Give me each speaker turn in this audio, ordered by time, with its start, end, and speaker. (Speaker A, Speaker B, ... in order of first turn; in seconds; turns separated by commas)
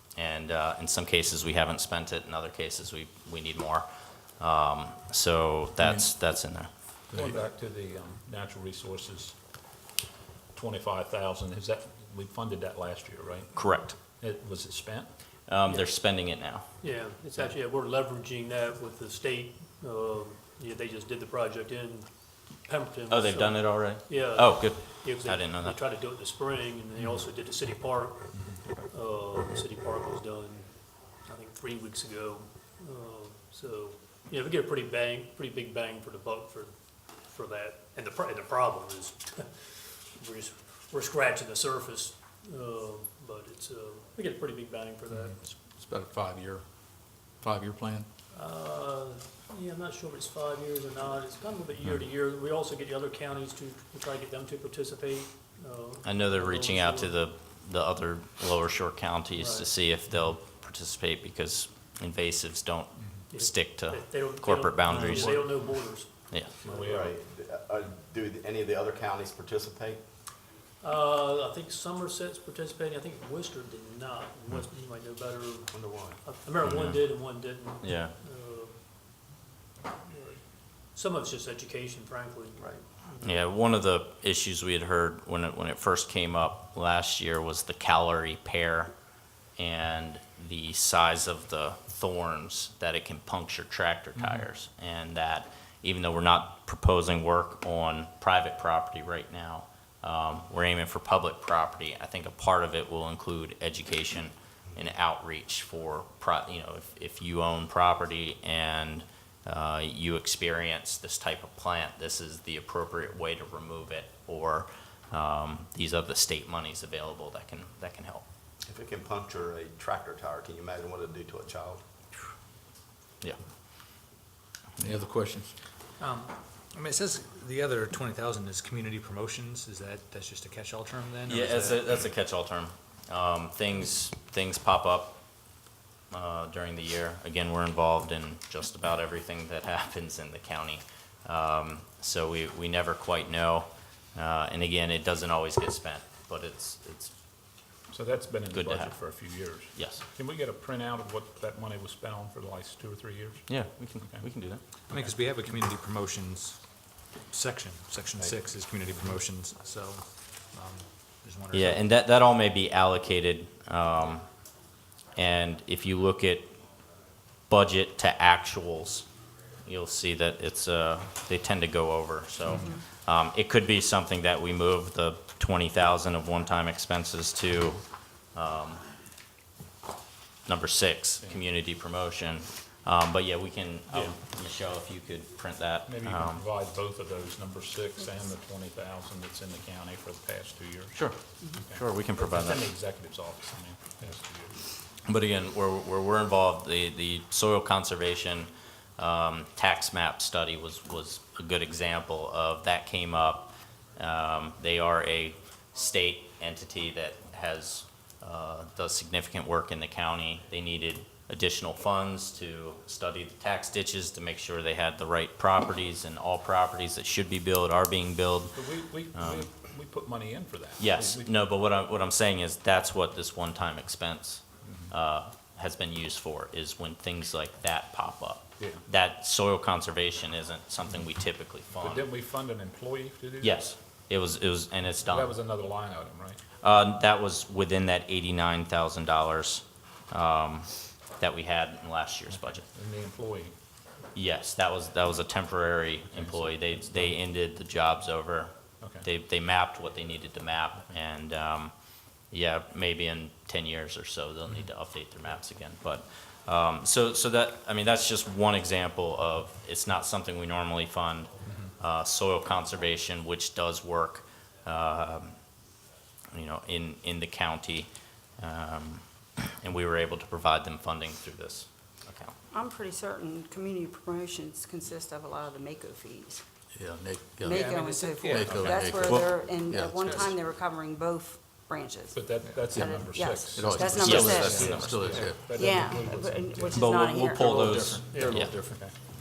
Speaker A: 0.1-3.9, Speaker A: 4.4-6.7, Speaker B: 5.8-6.1, Speaker C: 7.1-9.4, Speaker C: 10.5-15.1, Speaker A: 13.6-14.0, Speaker A: 15.5-16.9, Speaker D: 16.8-45.4, Speaker A: 23.1-25.8, Speaker B: 45.5-48.1, Speaker D: 48.3-57.2, Speaker A: 56.0-66.5, Speaker D: 59.3-59.7, Speaker D: 63.3-66.4, Speaker E: 66.6-70.0, Speaker C: 66.7-67.2, Speaker D: 70.8-78.8, Speaker E: 75.7-76.2, Speaker A: 76.6-78.1, Speaker D: 80.0-83.3, Speaker A: 83.2-88.9, Speaker A: 89.6-118.2, Speaker C: 94.2-94.5, Speaker E: 118.6-121.8, Speaker B: 124.8-125.5, Speaker F: 126.0-131.9, Speaker A: 131.3-135.2, Speaker A: 136.1-147.1, Speaker C: 147.9-154.3, Speaker A: 148.5-148.9, Speaker A: 149.8-150.0, Speaker A: 153.5-154.6, Speaker F: 154.9-161.8, Speaker A: 161.5-164.3, Speaker A: 165.2-166.5, Speaker A: 167.5-169.1, Speaker A: 169.7-177.8, Speaker G: 172.5-172.8, Speaker A: 178.3-178.8, Speaker A: 180.5-186.4, Speaker C: 183.9-184.2, Speaker C: 185.9-191.1, Speaker A: 190.9-192.7, Speaker C: 191.7-194.6, Speaker A: 195.1-218.6, Speaker C: 218.5-221.3, Speaker A: 219.1-219.5, Speaker A: 220.8-232.1, Speaker C: 224.6-224.9, Speaker C: 228.6-228.8, Speaker C: 231.8-233.7, Speaker A: 233.4-235.3, Speaker C: 235.1-236.4, Speaker A: 236.6-242.7, Speaker C: 242.3-243.5, Speaker A: 244.2-251.7, Speaker C: 246.2-247.1, Speaker C: 248.8-249.1, Speaker A: 252.3-265.4, Speaker A: 266.3-267.9, Speaker A: 268.4-272.3, Speaker G: 272.5-276.4, Speaker B: 276.7-277.7, Speaker G: 277.4-284.6, Speaker F: 277.5-278.5, Speaker B: 278.2-280.4, Speaker A: 278.6-279.3, Speaker C: 282.1-286.8, Speaker F: 282.4-282.7, Speaker B: 283.5-285.6, Speaker A: 284.0-285.1, Speaker G: 285.4-287.9, Speaker A: 286.7-288.6, Speaker B: 287.3-288.9, Speaker D: 288.1-288.5, Speaker C: 288.6-288.9